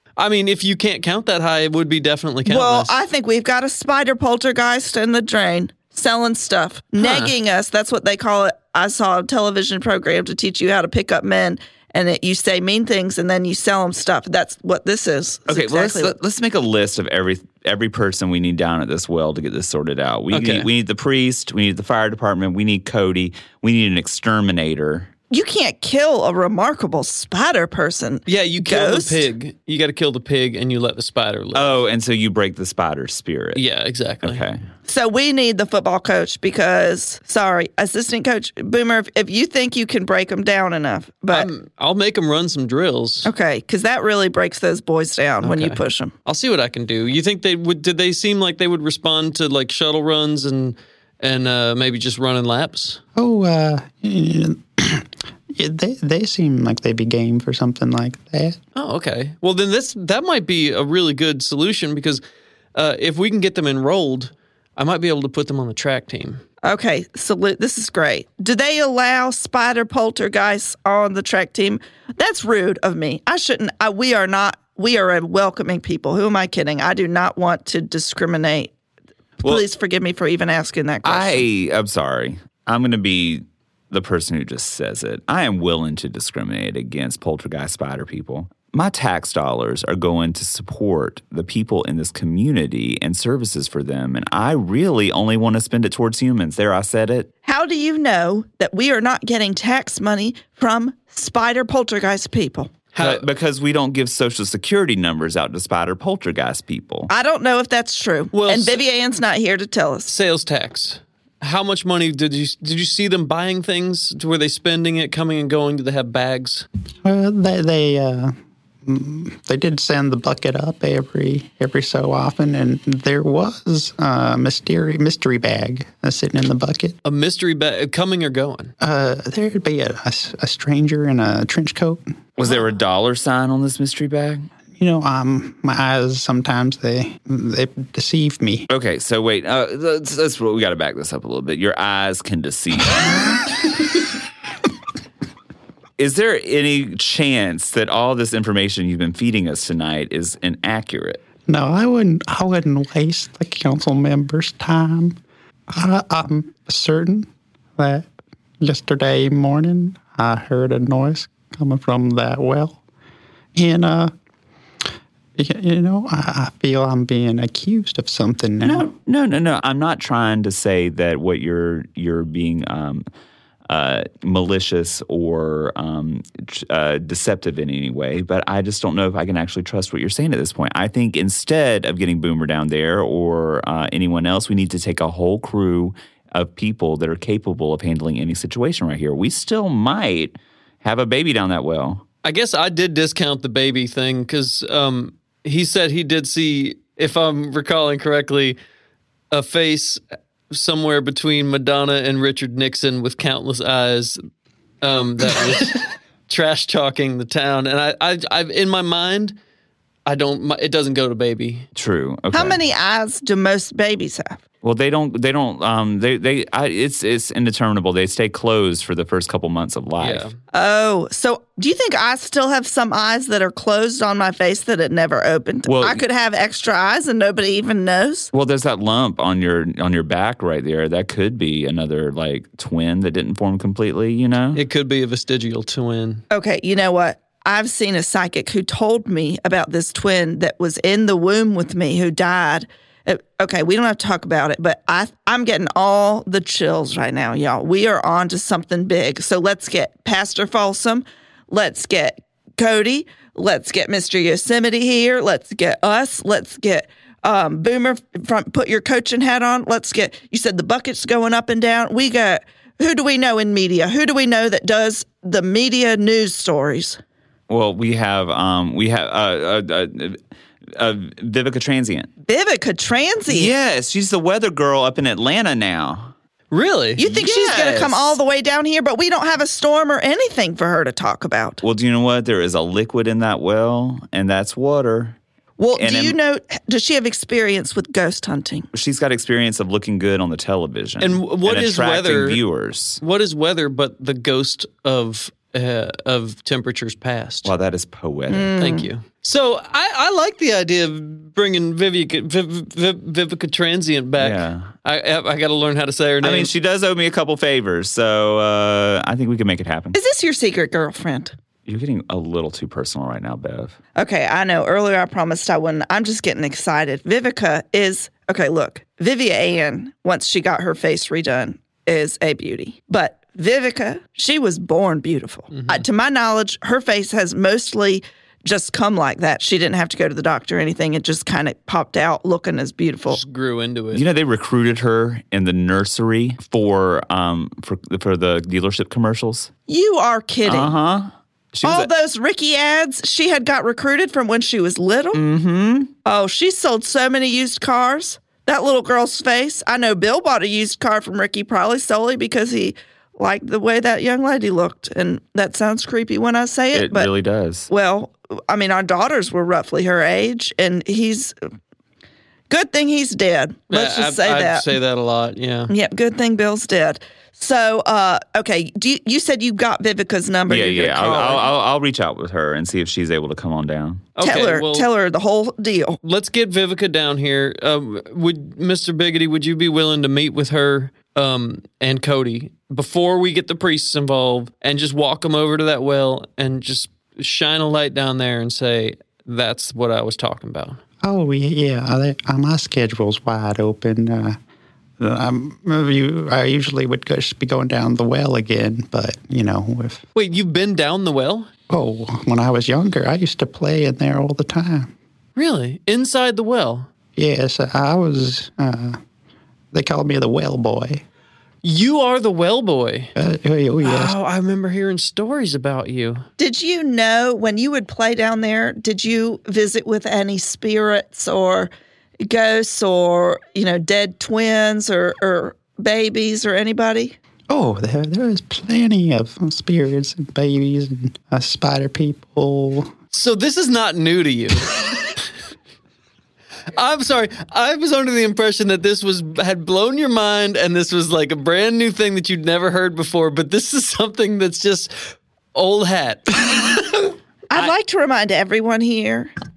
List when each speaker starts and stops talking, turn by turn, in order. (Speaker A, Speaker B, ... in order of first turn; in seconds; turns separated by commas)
Speaker A: 0.2-3.0, Speaker B: 2.5-16.1, Speaker A: 7.0-7.3, Speaker C: 15.5-25.1, Speaker A: 20.3-20.7, Speaker B: 25.3-29.3, Speaker A: 28.3-31.8, Speaker C: 31.5-33.6, Speaker A: 33.5-34.4, Speaker C: 34.2-34.6, Speaker B: 34.9-41.5, Speaker A: 41.3-43.3, Speaker B: 43.2-46.1, Speaker A: 45.4-53.0, Speaker D: 53.1-58.6, Speaker A: 58.8-62.2, Speaker A: 62.7-66.4, Speaker B: 66.6-78.7, Speaker B: 79.4-81.4, Speaker C: 81.0-97.3, Speaker B: 97.4-102.7, Speaker A: 102.9-103.2, Speaker C: 103.0-107.1, Speaker B: 107.1-110.1, Speaker A: 108.3-108.8, Speaker A: 110.1-116.7, Speaker D: 117.0-118.3, Speaker D: 118.8-127.0, Speaker A: 127.0-128.7, Speaker D: 128.8-132.0, Speaker C: 132.4-134.4, Speaker D: 134.8-138.7, Speaker C: 138.7-143.1, Speaker C: 146.0-151.2, Speaker D: 151.4-155.2, Speaker D: 155.7-158.1, Speaker D: 158.6-162.8, Speaker D: 163.5-164.1, Speaker D: 165.4-168.9, Speaker C: 168.6-173.0, Speaker C: 173.7-192.0, Speaker A: 192.2-198.6, Speaker A: 199.3-204.2, Speaker A: 204.8-209.4, Speaker A: 210.1-211.7, Speaker C: 211.7-212.6, Speaker B: 212.3-214.4, Speaker C: 214.6-220.3, Speaker A: 220.0-220.3, Speaker B: 220.5-228.3, Speaker C: 225.7-226.0, Speaker C: 228.3-234.6, Speaker A: 234.5-236.2, Speaker B: 236.3-267.0, Speaker C: 267.5-270.2, Speaker C: 270.7-272.1, Speaker B: 272.2-273.5, Speaker C: 273.3-276.1, Speaker A: 276.5-277.0, Speaker B: 277.0-281.6, Speaker C: 277.0-278.1, Speaker C: 281.6-285.2, Speaker B: 285.6-288.7, Speaker C: 285.7-286.2, Speaker C: 288.7-293.0, Speaker A: 291.0-292.4, Speaker A: 293.0-297.5, Speaker C: 297.4-298.5, Speaker B: 298.3-298.9, Speaker A: 298.6-306.5, Speaker C: 304.2-304.7, Speaker C: 306.2-310.0, Speaker B: 309.9-311.3, Speaker C: 311.6-313.8, Speaker B: 313.9-333.2, Speaker A: 325.5-325.8, Speaker A: 333.1-334.1, Speaker C: 333.9-339.5, Speaker B: 339.7-340.7, Speaker C: 340.4-341.9, Speaker B: 341.6-345.2, Speaker C: 345.1-345.9, Speaker B: 346.0-357.1, Speaker C: 356.7-357.7, Speaker B: 357.7-361.3, Speaker B: 362.5-364.7, Speaker A: 363.7-365.7, Speaker B: 365.7-371.4, Speaker C: 370.5-374.1, Speaker A: 371.0-371.4, Speaker A: 374.1-374.9, Speaker B: 374.2-376.0, Speaker A: 376.0-390.8, Speaker D: 391.0-394.4, Speaker D: 395.0-400.0, Speaker A: 400.1-401.5, Speaker D: 401.7-404.9, Speaker A: 405.4-406.9, Speaker D: 407.1-409.0, Speaker D: 409.7-411.0, Speaker A: 411.6-413.1, Speaker D: 413.1-414.1, Speaker A: 413.8-416.2, Speaker B: 416.4-427.1, Speaker D: 427.5-432.9, Speaker A: 433.1-434.8, Speaker A: 436.7-447.7, Speaker B: 447.5-449.3